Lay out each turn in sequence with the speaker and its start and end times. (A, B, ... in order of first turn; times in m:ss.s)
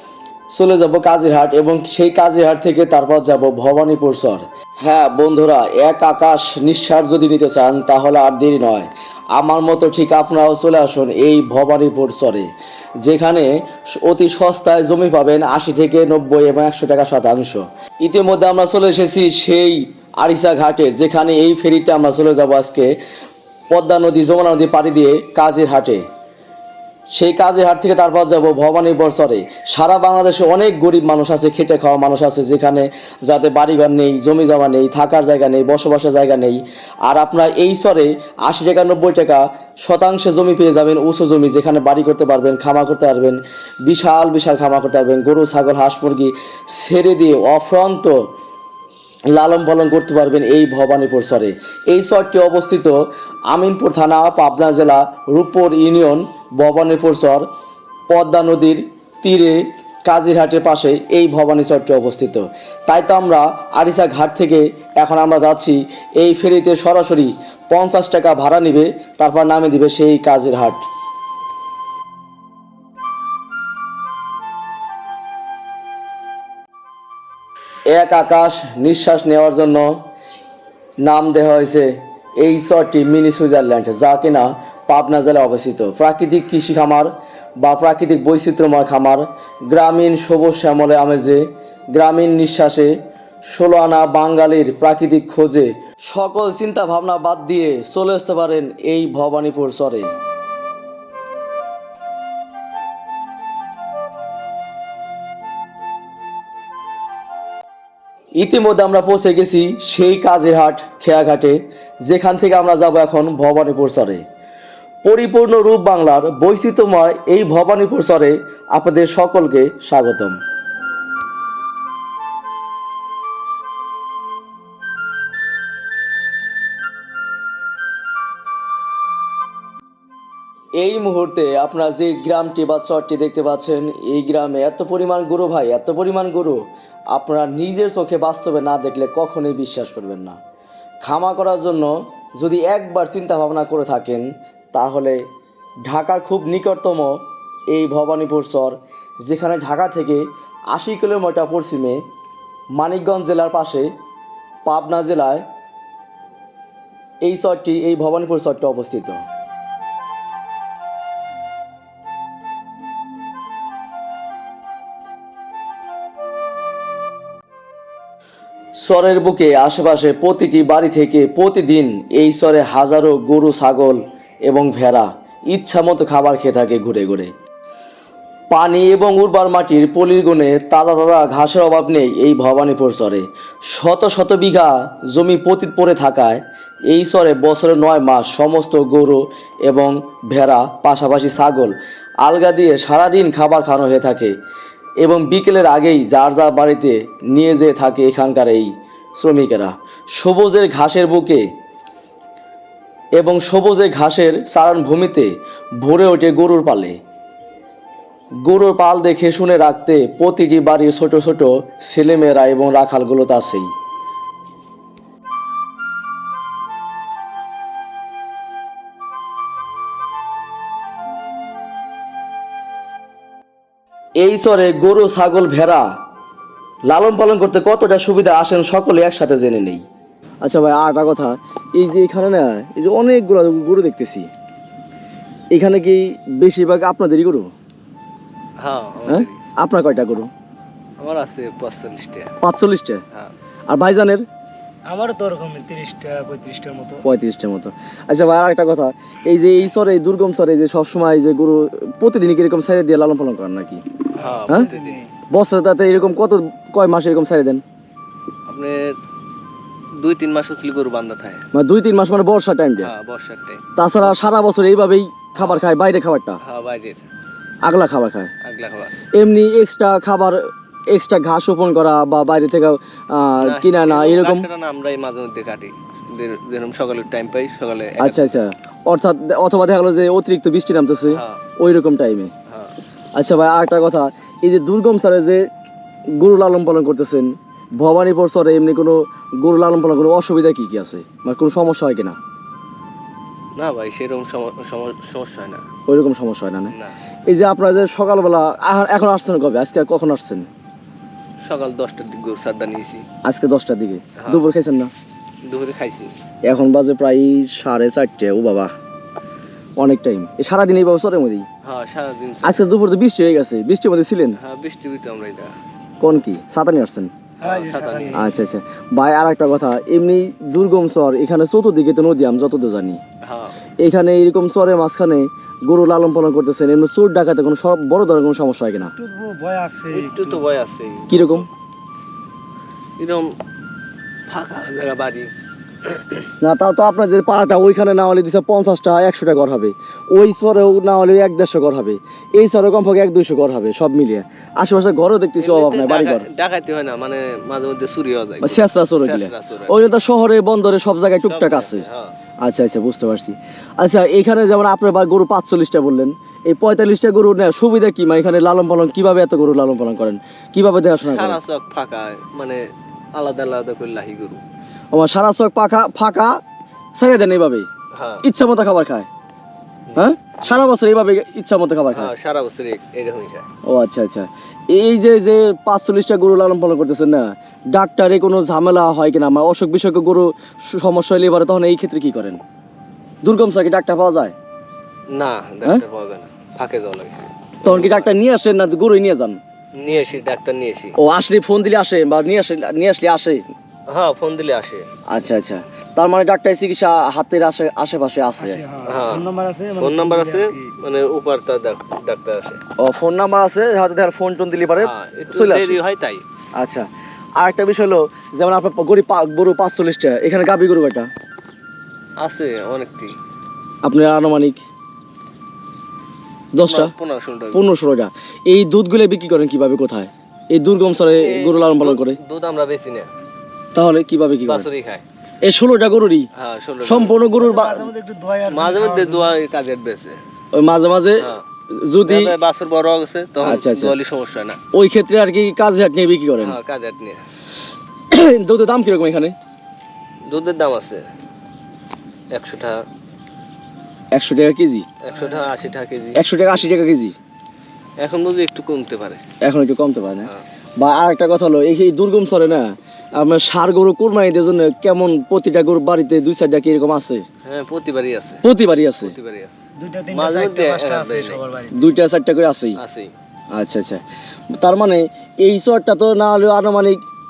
0:00.5-0:12.5 A
0:13.0-0:23.0 A
0:23.7-0:26.0 A
0:27.1-0:48.2 A
0:49.3-0:53.0 A
0:53.5-0:57.5 A
0:58.1-1:10.9 A
1:17.9-1:19.9 A
1:21.0-1:32.9 A
1:33.5-1:40.1 A
1:48.4-1:54.2 A
1:55.0-2:00.4 A
2:10.8-2:20.4 A
2:21.0-2:25.2 A
2:25.8-2:27.2 A
2:27.7-2:32.0 A
2:32.8-2:33.9 A
2:34.7-2:35.4 A
2:37.2-2:39.2 A
2:48.8-2:57.3 A
2:58.5-3:14.3 A
3:15.0-3:21.4 A
3:23.2-3:27.0 A
3:28.4-3:33.7 A
3:44.2-3:45.9 A
3:46.9-3:49.8 A
3:50.4-3:54.3 A
3:55.5-3:57.5 A
3:58.6-3:59.4 B
3:59.1-4:00.3 A
4:01.0-4:02.3 B
4:02.4-4:03.0 A
4:03.7-4:04.2 A
4:04.9-4:07.0 C
4:07.0-4:13.8 A
4:14.2-4:15.1 C
4:14.2-4:15.0 B
4:15.3-4:17.6 A
4:18.5-4:18.9 B
4:20.0-4:21.4 B
4:21.5-4:22.9 A
4:22.8-4:23.6 B
4:23.8-4:26.4 A
4:26.4-4:27.0 B
4:27.6-4:28.3 A
4:28.4-4:28.9 B
4:29.2-4:34.5 A
4:33.4-4:38.3 B
4:38.0-4:42.3 A
4:41.1-4:41.4 B
4:43.2-4:45.4 A
4:46.2-4:52.2 A
4:53.6-4:55.6 B
4:55.9-4:56.7 A
4:57.3-5:00.5 A
5:01.5-5:03.0 B
5:03.2-5:04.9 A
5:05.5-5:06.1 B
5:06.5-5:08.7 A
5:09.8-5:11.5 A
5:11.6-5:12.7 B
5:12.4-5:14.4 A
5:14.4-5:15.5 B
5:16.0-5:17.1 A
5:17.4-5:18.3 C
5:17.4-5:18.3 B
5:18.2-5:23.0 A
5:23.2-5:23.5 B
5:23.8-5:28.9 A
5:29.0-5:30.4 C
5:29.9-5:31.5 B
5:31.1-5:31.5 A
5:33.0-5:33.3 B
5:34.3-5:35.3 B
5:36.4-5:46.3 A
5:45.4-5:49.8 B
5:48.4-5:51.9 A
5:51.2-5:52.1 B
5:52.4-6:01.4 A
6:01.0-6:02.6 B
6:03.2-6:04.4 B
6:04.9-6:06.4 A
6:07.0-6:07.7 A
6:08.0-6:08.2 B
6:08.2-6:09.1 A
6:10.0-6:12.1 A
6:11.9-6:13.5 B
6:13.7-6:22.4 A
6:23.2-6:24.4 A
6:25.2-6:28.1 B
6:27.6-6:29.4 A
6:29.8-6:31.0 B
6:31.0-6:33.4 A
6:33.9-6:34.9 B
6:35.1-6:38.6 A
6:38.4-6:40.7 C
6:38.9-6:39.2 B
6:39.8-6:42.6 B
6:42.8-6:45.8 A
6:44.8-6:46.2 B
6:46.6-6:46.9 A
6:47.4-6:51.1 A
6:52.2-6:53.1 B
6:53.8-6:54.6 A
6:56.5-6:56.9 A
6:56.7-6:57.6 B
6:57.5-7:02.2 A
7:01.2-7:03.1 B
7:03.8-7:04.7 A
7:04.5-7:05.0 B
7:05.4-7:06.3 A
7:06.4-7:07.2 B
7:06.8-7:07.9 A
7:07.3-7:09.4 C
7:08.5-7:10.2 B
7:10.6-7:11.3 A
7:11.8-7:12.3 A
7:12.0-7:14.6 B
7:13.4-7:14.0 A
7:14.7-7:16.6 A
7:16.4-7:17.2 B
7:18.1-7:19.4 A
7:20.3-7:21.0 B
7:22.3-7:22.8 B
7:24.1-7:24.9 A
7:25.0-7:26.2 B
7:25.1-7:25.5 C
7:26.2-7:27.2 A
7:28.0-7:29.2 B
7:29.4-7:37.2 A
7:37.4-7:38.4 B
7:38.4-7:39.1 A
7:39.0-7:39.5 B
7:39.8-7:41.8 C
7:40.1-7:41.4 B
7:41.7-7:42.8 A
7:42.8-7:43.1 B
7:43.5-7:44.0 A
7:44.6-7:47.0 A